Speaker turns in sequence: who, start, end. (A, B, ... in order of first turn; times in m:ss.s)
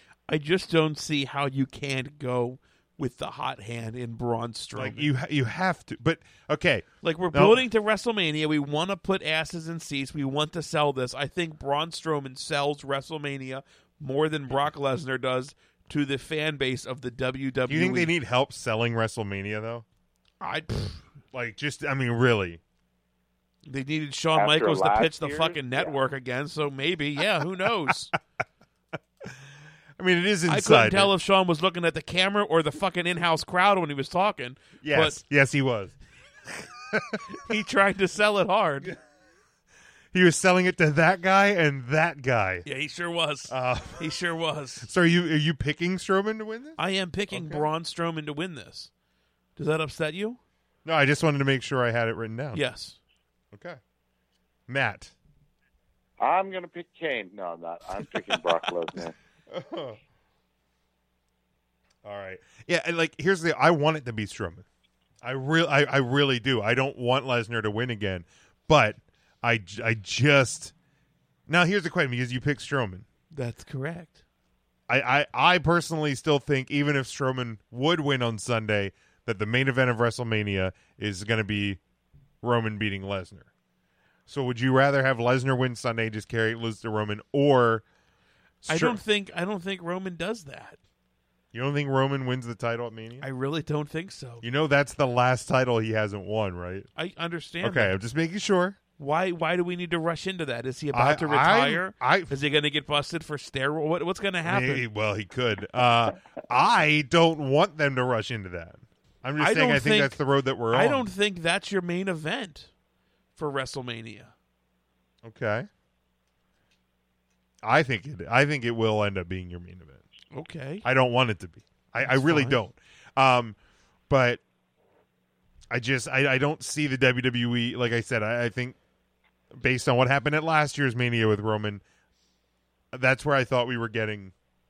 0:00.3-0:05.1 A
0:04.8-0:07.6 B
0:07.0-0:18.1 A
0:17.7-0:19.8 B
0:20.4-0:21.0 A
0:21.3-0:22.6 B
0:23.7-0:28.1 A
0:24.4-0:26.0 C
0:30.0-0:31.1 B
0:30.5-0:35.2 A
0:34.8-0:36.0 B
0:36.9-0:37.2 B
0:37.3-0:39.0 A
0:40.1-0:42.7 B
0:42.6-0:44.9 A
0:43.5-0:44.1 B
0:44.8-0:46.8 B
0:46.8-0:48.9 A
0:47.3-0:47.7 B
0:49.6-0:50.4 A
0:50.8-0:52.6 B
0:52.5-0:53.0 A
0:53.5-0:53.8 B
0:54.7-0:55.1 B
0:56.2-0:59.2 C
0:59.5-1:00.0 B
1:02.0-1:04.6 B
1:05.2-1:10.7 B
1:11.5-1:13.1 B
1:13.3-1:14.2 A
1:14.9-1:21.8 B
1:22.4-1:23.5 B
1:24.3-1:27.8 B
1:28.6-1:29.0 B
1:28.7-1:30.8 A
1:31.5-1:33.2 B
1:33.2-1:34.4 A
1:34.4-1:36.9 B
1:37.0-1:38.0 A
1:37.6-1:38.8 B
1:39.0-1:44.9 A
1:40.9-1:42.4 B
1:44.4-1:51.1 B
1:49.4-1:50.2 A
1:50.7-1:52.7 A
1:53.4-1:54.3 A
1:55.2-1:55.7 B
1:57.6-2:00.0 B
2:00.3-2:00.8 A
2:00.8-2:03.6 B
2:02.0-2:02.6 A
2:04.1-2:04.4 B
2:05.7-2:08.8 B
2:09.5-2:11.8 B
2:12.9-2:14.3 B